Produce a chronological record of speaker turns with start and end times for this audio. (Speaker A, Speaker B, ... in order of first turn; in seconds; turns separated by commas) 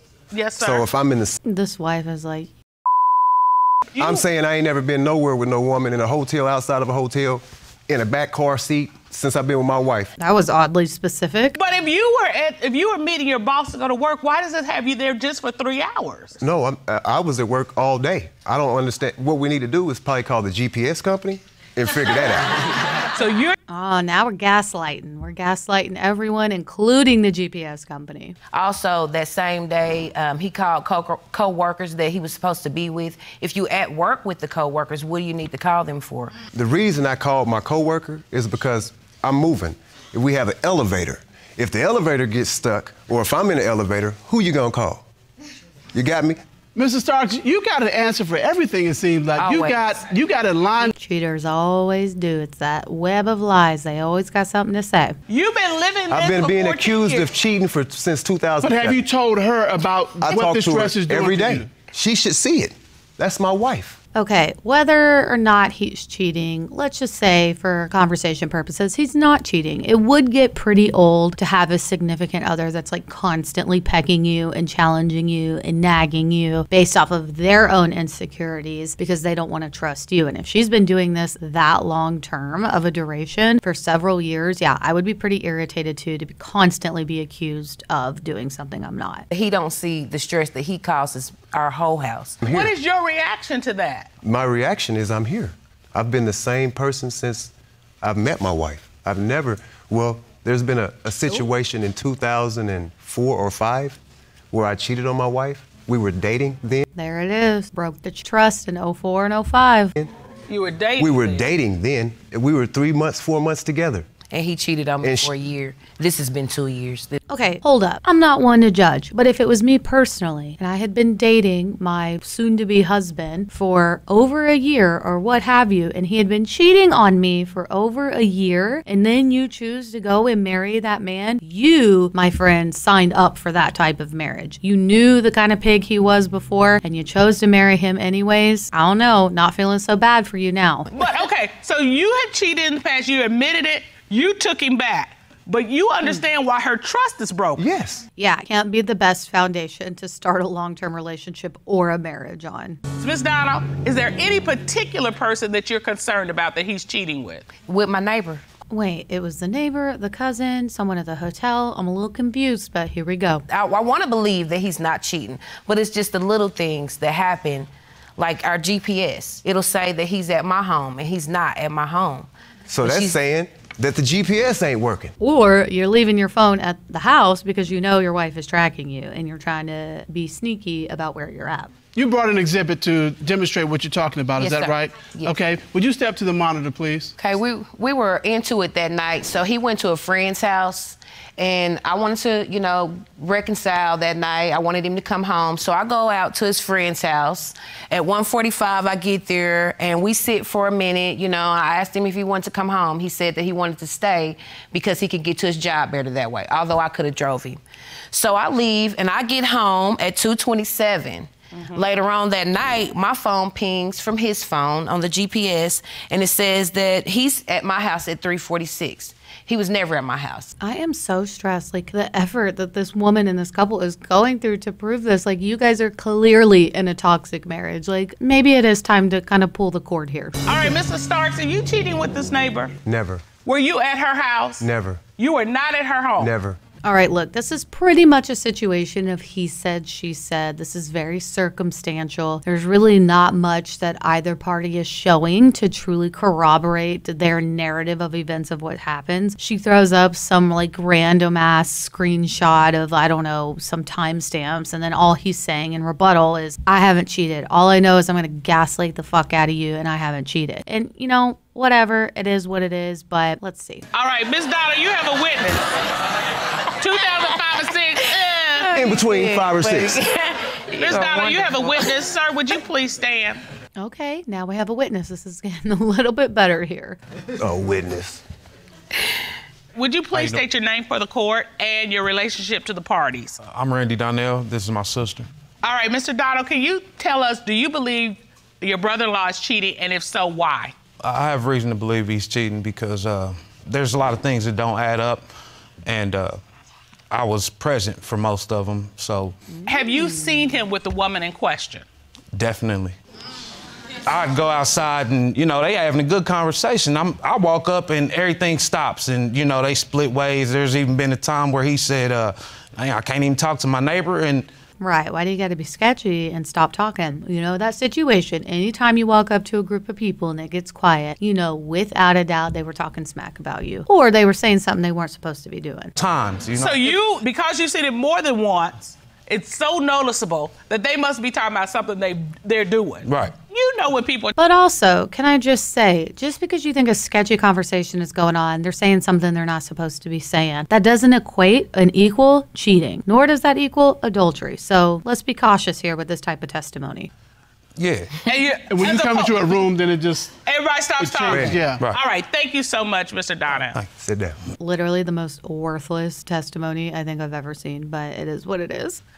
Speaker A: 0.3-0.8, Speaker B: 0.6-1.4, Speaker C: 1.4-2.5, Speaker A: 4.0-4.2, Speaker B: 4.0-10.1, Speaker C: 10.2-11.6, Speaker A: 11.6-16.4, Speaker B: 16.4-22.7, Speaker A: 23.1-23.6, Speaker C: 23.7-28.4, Speaker D: 28.5-36.4, Speaker B: 36.5-45.0, Speaker B: 45.9-46.4, Speaker E: 46.8-50.9, Speaker D: 49.4-49.8, Speaker C: 51.0-55.2, Speaker A: 55.3-57.3, Speaker B: 56.1-59.0, Speaker E: 58.6-61.7, Speaker B: 60.2-64.0, Speaker C: 64.2-89.3, Speaker D: 89.3-92.4, Speaker B: 92.4-92.7, Speaker A: 92.5-94.1, Speaker B: 94.2-104.0, Speaker B: 104.5-106.8, Speaker C: 106.9-110.0, Speaker A: 110.5-111.4, Speaker B: 111.0-114.1, Speaker D: 114.3-117.2, Speaker B: 115.0-115.3, Speaker C: 117.3-140.9, Speaker A: 140.9-147.6, Speaker B: 147.6-148.1, Speaker C: 148.2-152.8, Speaker A: 153.0-157.5, Speaker D: 157.6-158.4, Speaker C: 158.7-163.4, Speaker D: 163.5-172.3, Speaker B: 172.7-175.1, Speaker D: 172.8-173.2, Speaker C: 175.2-181.7, Speaker E: 181.9-187.1, Speaker D: 184.4-185.4, Speaker D: 187.2-207.6, Speaker D: 208.1-220.5, Speaker C: 220.6-230.6, Speaker A: 230.4-232.8, Speaker B: 232.8-233.2, Speaker A: 233.4-234.7, Speaker B: 234.6-235.0, Speaker A: 235.2-236.3, Speaker B: 236.2-236.6, Speaker C: 236.8-263.9, Speaker A: 263.9-265.6, Speaker A: 266.8-268.7, Speaker D: 268.6-271.9, Speaker B: 268.8-270.0, Speaker A: 270.8-273.4, Speaker C: 273.8-277.0, Speaker B: 277.4-278.2, Speaker A: 279.8-283.4, Speaker F: 280.1-280.4, Speaker F: 283.4-285.3, Speaker A: 285.6-290.7, Speaker F: 291.0-295.3, Speaker F: 295.9-296.4, Speaker F: 297.1-299.4, Speaker A: 299.6-301.9, Speaker F: 302.3-303.0, Speaker F: 304.0-314.5, Speaker C: 314.8-325.9, Speaker F: 325.9-327.0, Speaker A: 326.6-334.3, Speaker F: 333.1-333.4, Speaker C: 334.4-347.1, Speaker F: 347.8-348.2, Speaker A: 348.2-349.6, Speaker E: 348.7-350.3, Speaker A: 350.4-353.8, Speaker E: 351.0-351.8, Speaker B: 351.2-351.6, Speaker B: 354.0-354.4, Speaker C: 354.6-359.0